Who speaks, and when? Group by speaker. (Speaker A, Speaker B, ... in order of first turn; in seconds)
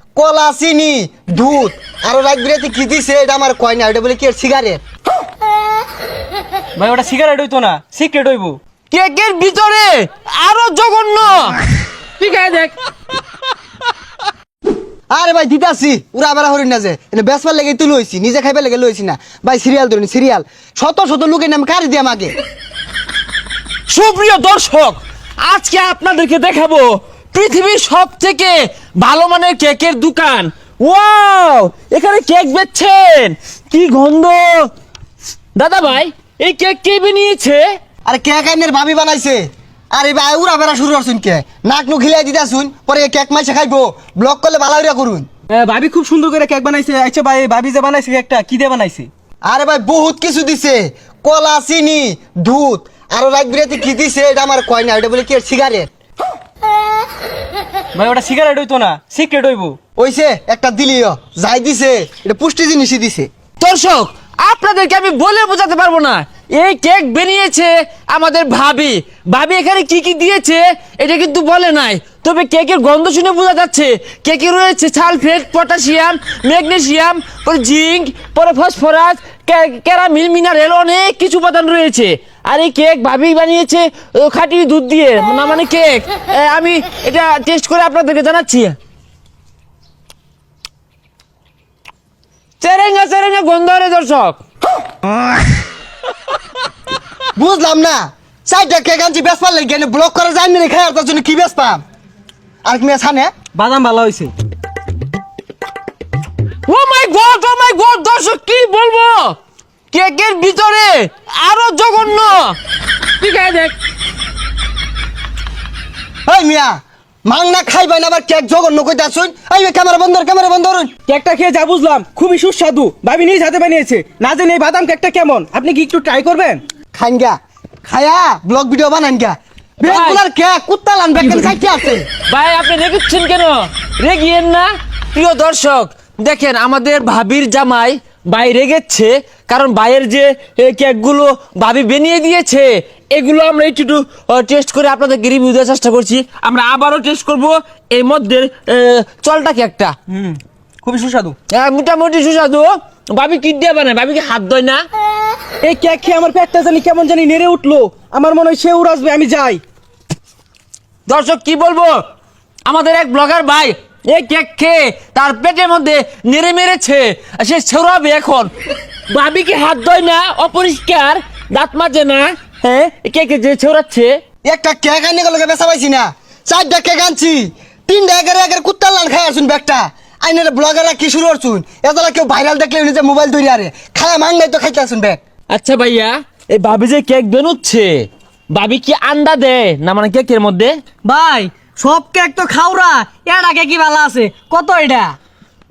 Speaker A: 0.1-4.8, 15.1-22.3, 38.0-45.2, 49.4-55.9, 60.0-63.3, 97.3-101.8, 102.6-103.3, 116.3-120.9, 126.9-127.3, 127.8-132.1, 174.4-185.2
Speaker B: 6.8-8.6, 45.5-49.1, 57.9-59.8, 103.5-104.3, 121.0-126.6, 150.1-151.3, 155.6-159.6
Speaker C: 8.9-11.6, 12.2-12.8, 23.9-34.7, 35.5-37.6, 63.6-88.7, 92.6-94.4, 106.7-109.3, 109.9-112.6, 113.2-113.8, 129.8-130.2, 132.3-149.9, 151.5-154.8, 161.1-161.9, 162.7-168.5, 169.1-174.1, 185.5-187.9, 188.5-190.7
Speaker D: 191.0-195.2